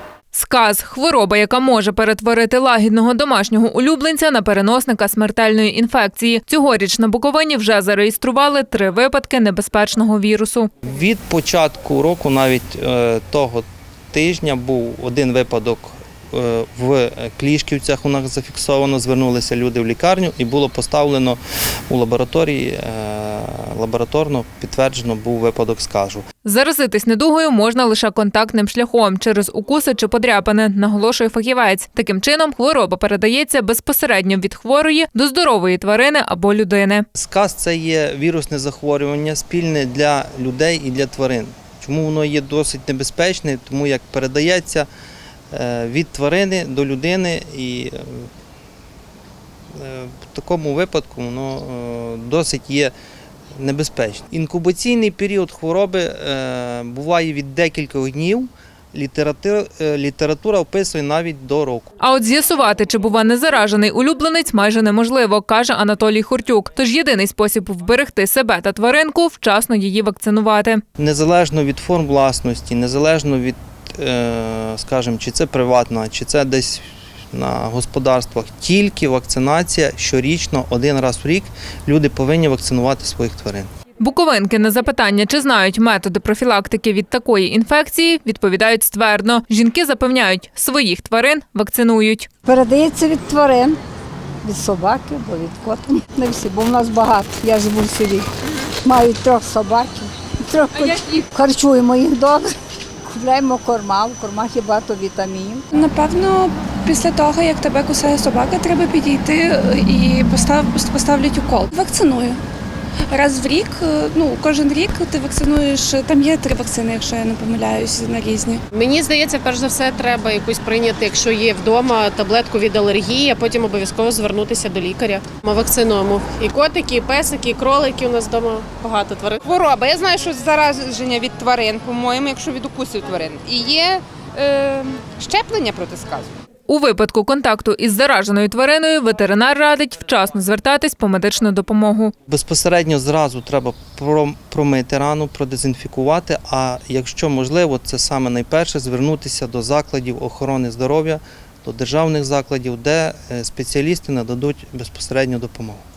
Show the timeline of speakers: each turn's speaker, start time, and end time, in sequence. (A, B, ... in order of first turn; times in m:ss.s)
0:00.3-0:10.7 A
0:10.8-0:26.2 B
0:26.4-0:37.0 A
0:37.1-0:44.9 B
0:45.5-0:48.3 B
0:49.7-0:52.9 B
0:53.6-1:01.9 B
1:02.0-1:10.8 A
1:11.0-1:23.7 B
1:24.0-1:32.3 A
1:32.4-1:33.8 C
1:34.4-1:38.2 C
1:38.8-1:42.5 C
1:43.0-1:45.6 C
1:45.7-1:52.4 D
1:53.1-1:58.6 D
1:58.7-2:09.4 E
2:09.4-2:16.3 F
2:16.7-2:22.1 A
2:22.3-2:35.8 B